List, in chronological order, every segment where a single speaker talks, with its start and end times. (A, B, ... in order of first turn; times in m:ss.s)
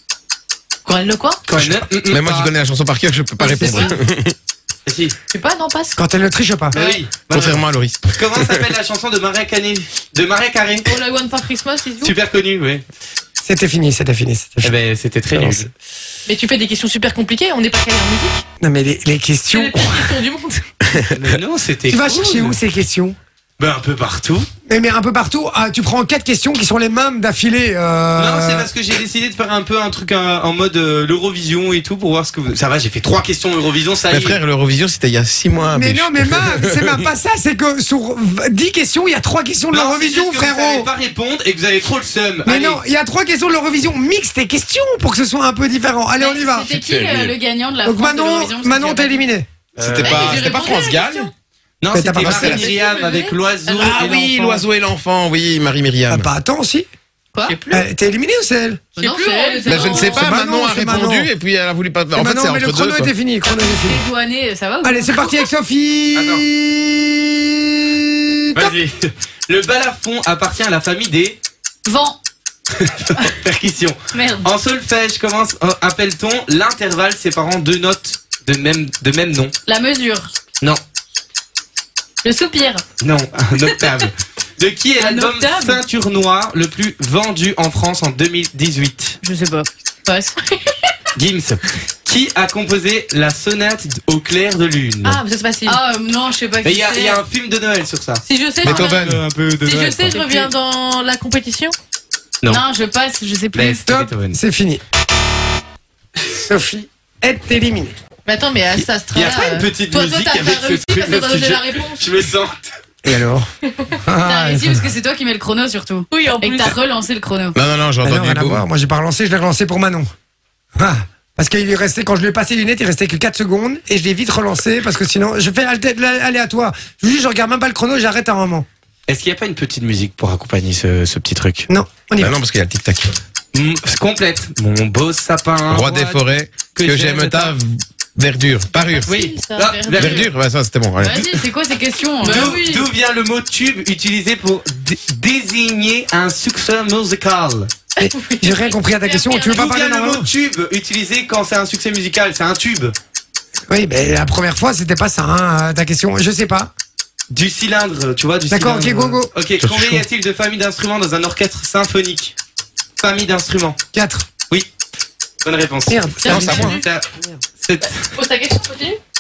0:00.8-0:01.4 A
0:01.4-0:02.5 B
0:01.6-0:04.4 C
0:03.4-0:03.9 A
0:04.9-0:05.2 B
0:05.3-0:06.0 A
0:06.0-0:06.8 D
0:06.7-0:11.0 B
0:07.3-0:08.6 C
0:10.9-0:12.2 A
0:12.0-0:12.8 B
0:13.4-0:14.8 D
0:14.6-0:15.7 B
0:15.4-0:15.7 D
0:16.3-0:18.4 A
0:18.6-0:20.1 D
0:19.5-0:20.7 A
0:21.1-0:22.6 B
0:21.9-0:23.2 D
0:23.6-0:24.5 B
0:24.7-0:28.7 D
0:28.2-0:34.4 B
0:34.1-0:37.1 C
0:35.7-0:40.9 D
0:39.7-0:42.8 B
0:42.4-0:46.7 D
0:46.2-0:49.2 E
0:46.7-0:47.4 C
0:47.8-0:49.5 D
0:49.8-0:50.7 B
0:49.8-0:51.3 C
0:50.0-0:51.3 A
0:51.8-0:54.6 B
0:51.9-0:52.7 D
0:52.3-0:54.0 A
0:53.8-0:56.3 C
0:56.1-0:56.9 D
0:57.5-0:57.8 A
0:57.7-0:58.8 D
0:59.0-1:00.3 E
0:59.0-1:00.7 A
0:59.6-1:03.1 C
0:59.8-1:01.3 D
1:02.1-1:04.0 D
1:03.5-1:05.5 E
1:04.8-1:08.8 D
1:06.2-1:06.4 B
1:08.6-1:11.4 B
1:11.9-1:12.2 E
1:12.7-1:19.5 B
1:14.1-1:14.5 E
1:19.7-1:20.3 E
1:22.2-1:22.8 E
1:23.0-1:29.2 B
1:25.0-1:25.8 E
1:29.2-1:29.7 E
1:30.1-1:30.7 A
1:31.2-1:35.2 B
1:35.0-1:35.8 A
1:35.6-1:37.2 E
1:36.6-1:40.2 B
1:38.2-1:39.0 A
1:38.6-1:39.2 C
1:39.6-1:41.8 A
1:40.1-1:40.5 E
1:42.5-1:43.8 E
1:43.5-1:44.4 B
1:43.9-1:44.8 D
1:46.3-1:48.0 D
1:48.3-1:52.0 A
1:48.8-1:52.7 B
1:53.0-1:53.5 D
1:54.0-1:54.9 D
1:54.2-1:57.6 E
1:56.1-1:56.8 A
1:57.5-1:58.7 C
1:58.0-2:00.1 D
2:00.8-2:08.7 D
2:09.1-2:11.7 B
2:11.7-2:12.3 D
2:12.2-2:13.2 C
2:13.5-2:16.2 B
2:15.7-2:19.2 C
2:16.7-2:17.6 B
2:19.0-2:20.3 B
2:19.1-2:20.3 A
2:19.9-2:21.3 C
2:21.0-2:22.8 E
2:21.1-2:21.4 B
2:22.2-2:22.8 A
2:22.2-2:27.7 B
2:28.0-2:30.3 D
2:28.1-2:29.2 A
2:29.1-2:33.0 B
2:33.7-2:36.7 D
2:37.3-2:42.4 B
2:38.5-2:39.3 D
2:39.6-2:40.1 C
2:43.0-2:43.8 B
2:43.9-2:44.3 D
2:45.4-2:48.1 B
2:45.9-2:46.8 D
2:46.2-2:46.8 A
2:46.4-2:46.8 C
2:48.1-2:49.0 A